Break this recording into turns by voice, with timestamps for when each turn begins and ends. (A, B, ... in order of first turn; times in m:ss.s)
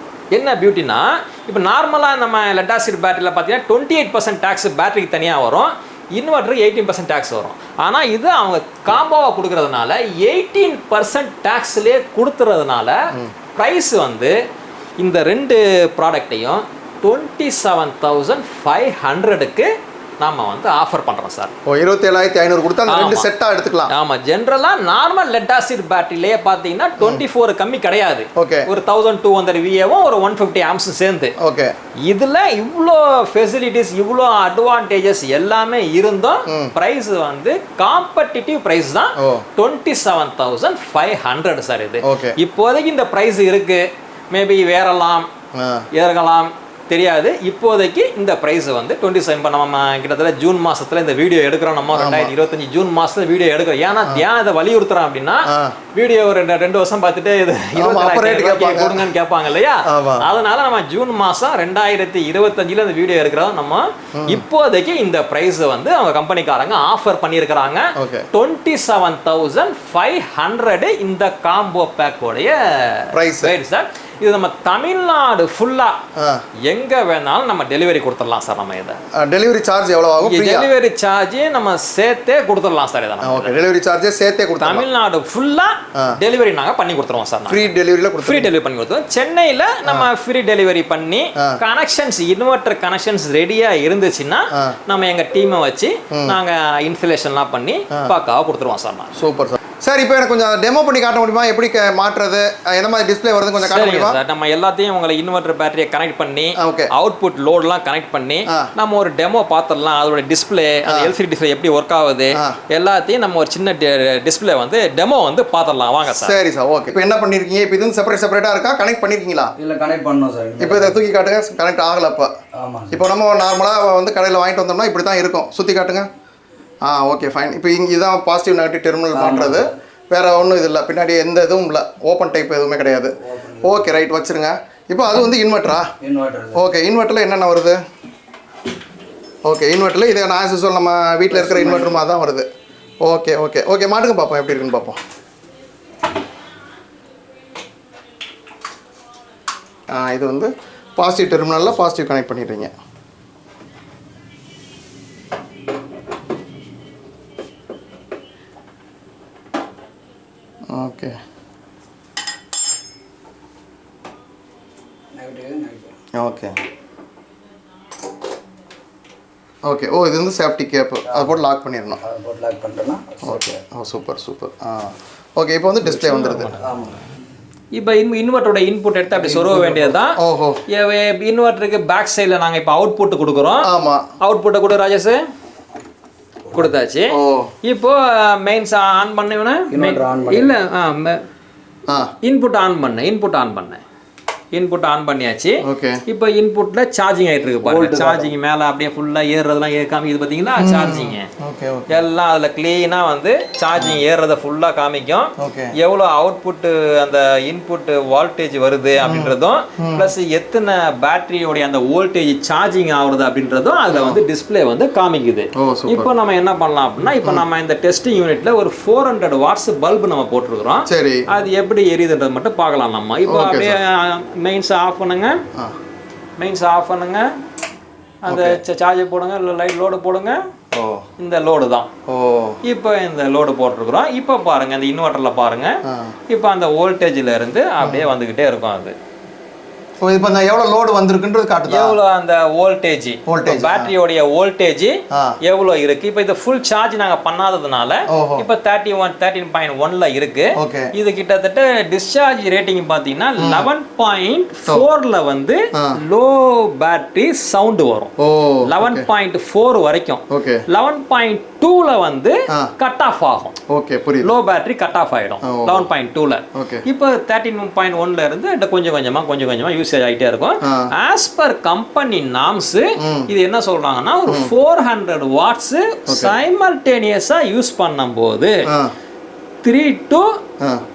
0:00.3-0:13.0 A
0:13.5-0:14.3 A
0:15.0-0:19.7 A
0:20.2-0:21.5 A
0:21.6-0:23.9 B
0:22.8-0:23.3 A
0:23.9-0:31.3 A
0:28.4-0:28.7 B
0:31.4-0:31.7 B
0:32.0-0:45.3 A
0:36.5-0:36.7 B
0:39.2-0:39.4 B
0:42.1-0:42.4 B
0:45.5-0:45.8 B
0:45.9-1:16.0 A
0:51.9-0:52.3 B
0:55.5-0:55.8 B
0:57.8-0:59.1 B
0:59.9-1:00.3 B
1:04.2-1:04.4 B
1:08.0-1:08.3 B
1:13.2-1:13.5 B
1:16.2-1:16.4 B
1:16.7-1:19.0 A
1:19.2-1:20.7 B
1:20.2-1:23.6 A
1:23.2-1:24.8 B
1:24.6-1:39.1 A
1:27.5-1:28.5 B
1:39.2-1:44.2 B
1:43.5-1:56.4 A
1:46.6-1:46.9 B
1:50.9-1:51.1 B
1:56.1-1:59.5 B
1:59.6-2:01.0 C
2:00.6-2:02.3 B
2:02.6-2:03.0 C
2:02.9-2:06.1 B
2:06.8-2:15.9 B
2:09.1-2:09.7 C
2:13.2-2:13.9 C
2:16.0-2:16.6 C
2:16.5-2:17.8 B
2:19.4-2:22.4 B
2:21.3-2:22.0 C
2:23.0-2:25.0 B
2:29.9-2:32.7 B
2:40.7-2:41.2 B
2:45.1-2:45.9 C
2:46.1-2:46.6 B
2:49.6-2:52.0 B
2:51.0-2:51.4 C
2:52.0-2:53.6 C
2:53.2-2:56.6 B
2:55.8-2:56.7 A
2:56.6-2:57.0 C
2:57.7-3:03.7 A
2:59.1-3:00.0 C
3:00.2-3:00.6 B
3:03.7-3:04.0 B
3:04.2-3:05.2 A
3:06.5-3:11.2 A
3:07.1-3:07.5 B
3:09.7-3:10.5 C
3:11.9-3:12.1 B
3:12.2-3:13.8 A
3:14.5-3:21.3 A
3:15.7-3:16.0 B
3:17.6-3:18.3 C
3:20.6-3:21.9 B
3:21.9-3:45.4 A
3:25.4-3:25.7 B
3:29.0-3:30.1 B
3:33.9-3:34.2 B
3:35.6-3:36.1 B
3:40.9-3:41.2 B
3:43.3-3:43.7 B
3:46.4-3:47.4 A
3:48.2-3:50.4 A
3:48.3-3:48.6 B
3:50.7-3:51.0 B
3:51.2-3:51.9 A
3:52.1-3:52.6 B
3:52.6-3:58.9 A
3:55.9-3:56.1 B
3:57.8-3:58.1 B
4:00.0-4:02.0 B
4:01.7-4:18.1 A
4:03.3-4:03.9 B
4:08.1-4:08.4 B
4:10.6-4:10.9 B
4:13.4-4:13.7 B
4:18.2-4:19.1 B
4:18.6-4:23.6 A
4:20.3-4:20.6 B
4:23.7-4:24.3 B
4:24.2-4:38.7 A
4:25.4-4:25.8 B
4:26.5-4:26.8 B
4:34.3-4:34.5 B
4:36.1-4:36.3 B
4:39.6-4:40.4 A